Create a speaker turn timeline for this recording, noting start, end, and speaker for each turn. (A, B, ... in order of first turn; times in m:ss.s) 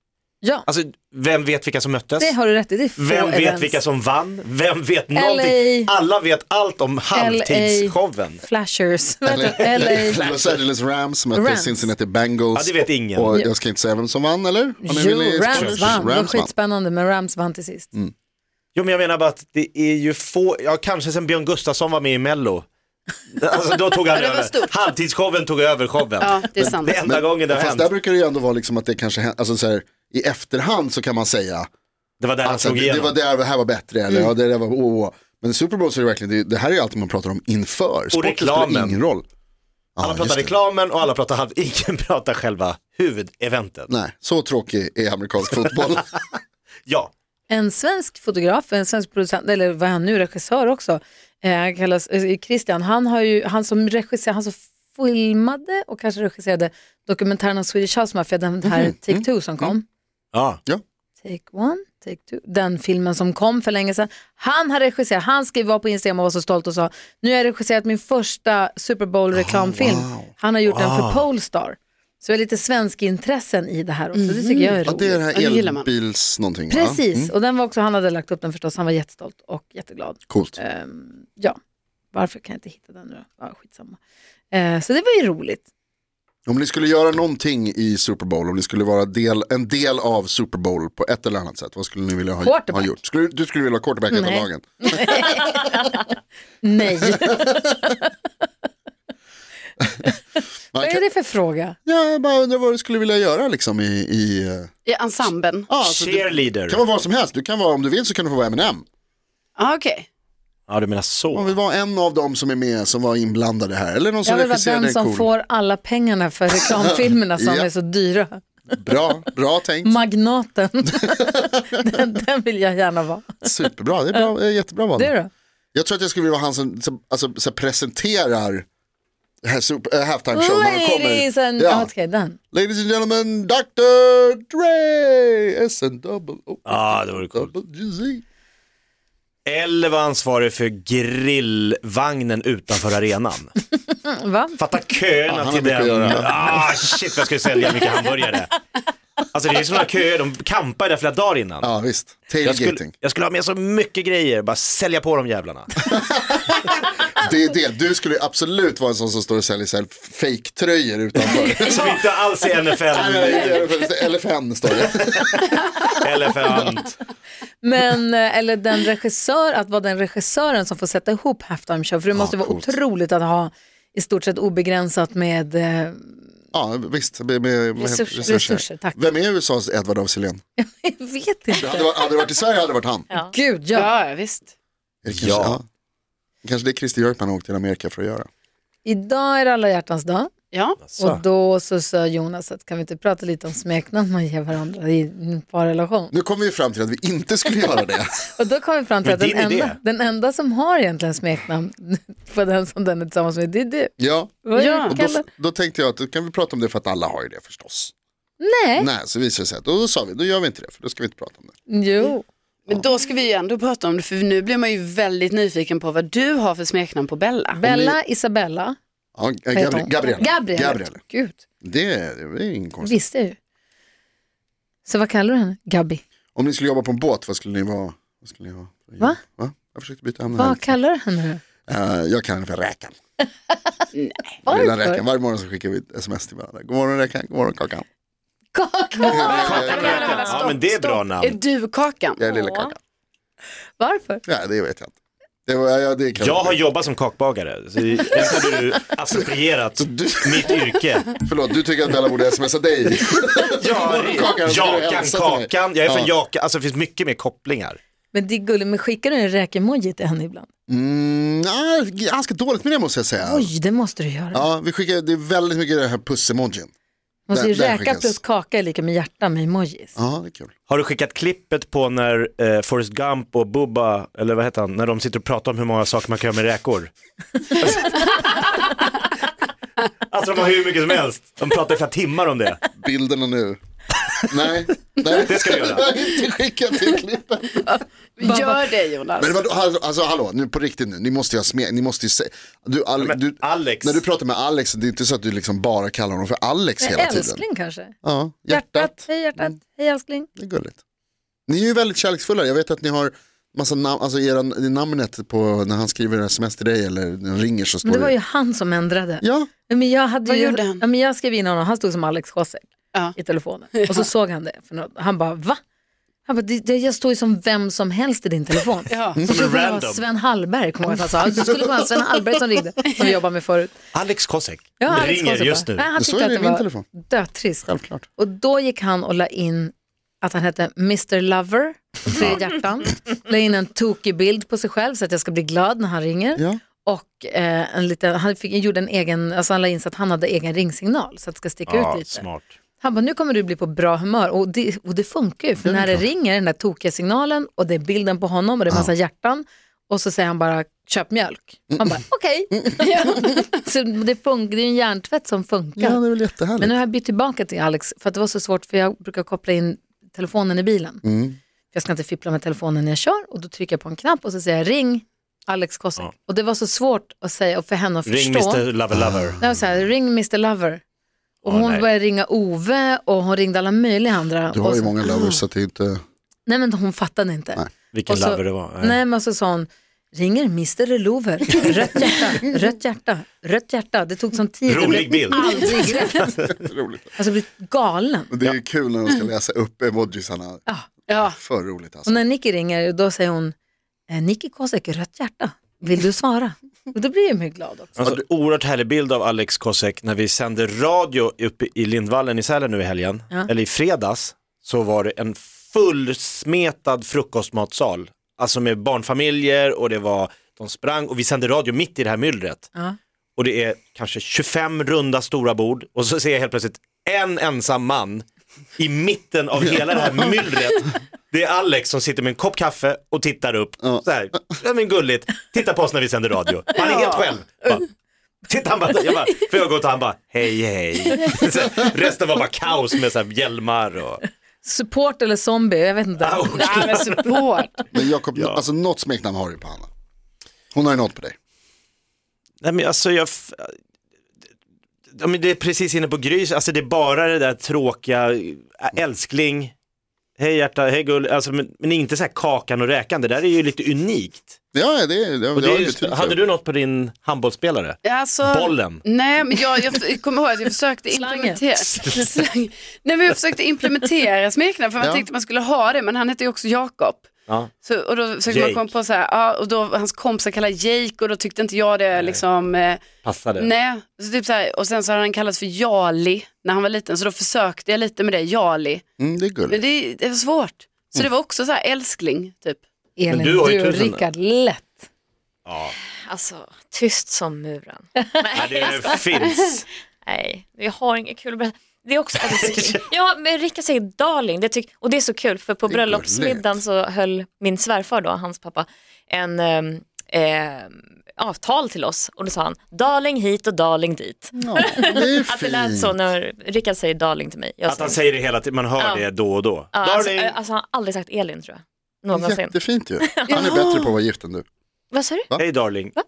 0:00.4-0:00.7 A
0:00.7-0:02.4 B
0:02.2-0:03.8 A
0:03.0-0:08.4 B
0:05.1-0:05.9 A
0:07.1-0:10.2 A
0:09.2-0:16.5 C
0:09.8-0:10.6 B
0:11.3-0:11.9 A
0:12.6-0:13.4 B
0:14.8-0:17.9 A
0:15.5-0:16.0 B
0:18.8-0:22.7 B
0:23.3-0:27.9 B
0:24.1-0:24.8 D
0:26.2-0:27.1 D
0:26.6-0:31.7 C
0:32.2-0:33.2 B
0:32.4-0:39.2 C
0:38.1-0:39.0 B
0:40.0-0:40.6 C
0:40.0-0:43.9 B
0:43.9-0:46.1 C
0:46.9-0:47.1 B
0:47.5-0:59.8 A
0:58.6-0:59.8 C
1:00.3-1:00.6 B
1:01.2-1:15.2 A
1:09.3-1:10.3 C
1:10.7-1:11.2 B
1:14.1-1:14.8 D
1:14.8-1:17.3 C
1:15.3-1:15.9 D
1:16.7-1:21.6 A
1:20.3-1:20.6 C
1:22.1-1:24.0 A
1:24.5-1:25.7 A
1:26.5-1:35.6 C
1:32.4-1:32.9 A
1:34.1-1:36.0 A
1:36.6-1:38.0 A
1:37.1-1:37.6 C
1:40.7-1:41.0 C
1:40.8-1:41.8 A
1:41.9-1:44.7 C
1:44.9-1:45.7 D
1:45.7-1:48.8 C
1:45.8-1:46.8 B
1:49.6-1:50.1 D
1:50.7-1:51.5 B
1:51.3-1:55.3 C
1:54.2-1:58.4 A
1:56.7-1:57.7 C
1:58.7-2:00.0 C
1:59.8-2:03.5 A
2:03.4-2:05.1 C
2:05.0-2:05.3 A
2:05.8-2:08.6 C
2:09.4-2:11.9 C
2:10.3-2:12.4 A
2:12.5-2:18.2 C
2:16.6-2:17.5 B
2:19.5-2:23.5 B
2:24.0-2:24.6 A
2:24.6-2:28.5 B
2:25.3-2:26.7 C
2:29.3-2:31.7 B
2:31.6-2:32.9 C
2:32.4-2:35.9 B
2:35.8-2:36.4 C
2:37.0-2:42.0 C
2:41.3-2:43.7 B
2:42.9-2:45.5 C
2:45.3-2:46.9 B
2:47.6-2:56.2 A
2:52.1-2:52.8 C
2:56.5-3:00.4 C
2:57.8-2:59.0 A
3:00.6-3:01.9 A
3:01.5-3:03.1 C
3:03.3-3:03.9 A
3:03.7-3:04.5 D
3:05.0-3:05.6 C
3:05.1-3:05.6 B
3:06.4-3:08.3 C
3:08.8-3:10.3 A
3:10.5-3:10.8 D
3:10.8-3:11.2 B
3:11.0-3:16.1 A
3:16.1-3:18.3 C
3:18.3-3:25.2 A
3:19.0-3:19.8 B
3:24.0-3:27.9 C
3:24.6-3:25.0 D
3:28.4-3:28.9 A
3:28.8-3:31.5 C
3:31.7-3:32.2 A
3:32.7-3:37.6 D
3:37.5-3:38.8 A
3:37.6-3:38.0 C
3:39.2-3:41.0 C
3:39.5-3:41.4 A
3:41.6-3:43.0 C
3:42.8-3:43.4 A
3:44.8-3:46.0 A
3:46.4-3:50.8 C
3:50.3-3:51.4 A
3:51.7-3:53.0 C
3:53.9-3:54.4 D
3:54.4-3:55.0 A
3:54.5-3:57.8 C
3:58.5-4:00.2 A
3:59.1-4:02.2 D
3:59.1-4:00.0 C
3:59.4-4:01.4 B
4:02.2-4:02.8 C
4:02.2-4:02.7 E
4:03.8-4:04.2 A
4:04.3-4:05.0 C
4:05.5-4:06.6 C
4:06.2-4:11.2 B
4:08.2-4:08.8 C
4:09.8-4:16.1 C
4:13.6-4:17.8 B
4:18.1-4:20.5 A
4:20.7-4:23.5 C
4:23.2-4:24.5 A
4:24.3-4:26.7 C
4:27.3-4:30.0 A
4:27.3-4:28.2 C
4:30.0-4:30.5 C
4:30.7-4:36.9 B
4:37.5-4:39.3 B
4:40.1-4:42.6 B
4:42.8-4:43.6 C
4:44.2-4:47.6 C
4:45.2-4:45.9 B
4:48.2-4:49.4 D
4:48.2-4:48.6 A
4:49.2-4:57.4 C
4:53.0-4:54.0 B
4:56.8-4:58.0 A
4:58.0-4:59.5 C
4:58.5-5:00.3 A
5:00.4-5:00.8 C
5:01.5-5:08.1 C
5:07.8-5:15.6 A
5:09.2-5:09.5 C
5:10.2-5:10.8 D
5:13.7-5:14.1 D
5:16.2-5:23.8 A
5:18.9-5:19.2 D
5:19.2-5:20.0 B
5:23.9-5:25.9 B
5:24.8-5:42.3 A
5:26.0-5:26.9 C
5:27.6-5:28.1 C
5:41.7-5:42.5 B
5:42.8-6:01.0 A
5:45.6-5:46.0 C
5:51.7-5:52.0 C
5:52.5-5:52.8 C
5:52.8-5:53.3 D
5:55.8-5:56.8 C
6:01.0-6:01.4 C
6:01.7-6:08.6 A
6:08.1-6:09.4 B
6:08.9-6:09.6 C
6:09.4-6:10.8 A
6:11.4-6:15.3 A
6:11.4-6:11.8 B
6:14.5-6:16.0 C
6:16.5-6:26.4 A
6:17.9-6:19.0 B
6:24.7-6:26.5 B
6:26.4-6:27.2 C
6:27.2-6:28.3 A
6:28.3-6:32.2 C
6:31.1-6:31.4 D
6:32.1-6:33.6 A
6:34.1-6:38.0 A
6:38.0-6:52.7 B
6:53.4-6:58.2 B
6:58.8-7:07.8 B
7:03.8-7:04.0 C
7:06.8-7:07.4 D
7:08.5-7:14.2 B
7:14.6-7:16.8 A
7:16.2-7:17.4 B
7:16.5-7:17.8 D
7:17.9-7:19.9 C
7:18.4-7:18.6 B
7:20.7-7:21.4 C
7:22.6-7:23.7 B
7:25.2-7:29.7 B
7:30.4-7:34.6 B
7:34.7-7:36.4 C
7:35.6-7:39.0 B
7:38.0-7:59.0 D
7:41.1-7:41.6 A
7:41.8-7:42.4 B
7:48.5-7:48.9 B
7:52.2-7:52.4 B
7:53.2-7:53.7 B
7:59.2-7:59.8 C
7:59.7-8:02.8 D
8:03.2-8:05.1 A
8:03.3-8:04.2 B
8:05.7-8:06.0 B
8:06.3-8:09.4 E
8:08.6-8:09.9 B
8:10.2-8:28.2 E
8:12.4-8:13.1 B
8:15.9-8:16.8 C
8:24.6-8:26.2 C
8:27.9-8:30.6 B
8:29.0-8:29.3 E
8:29.9-8:33.7 E
8:32.3-8:34.7 C
8:33.5-8:34.1 D
8:35.1-8:35.5 E
8:35.6-8:36.1 B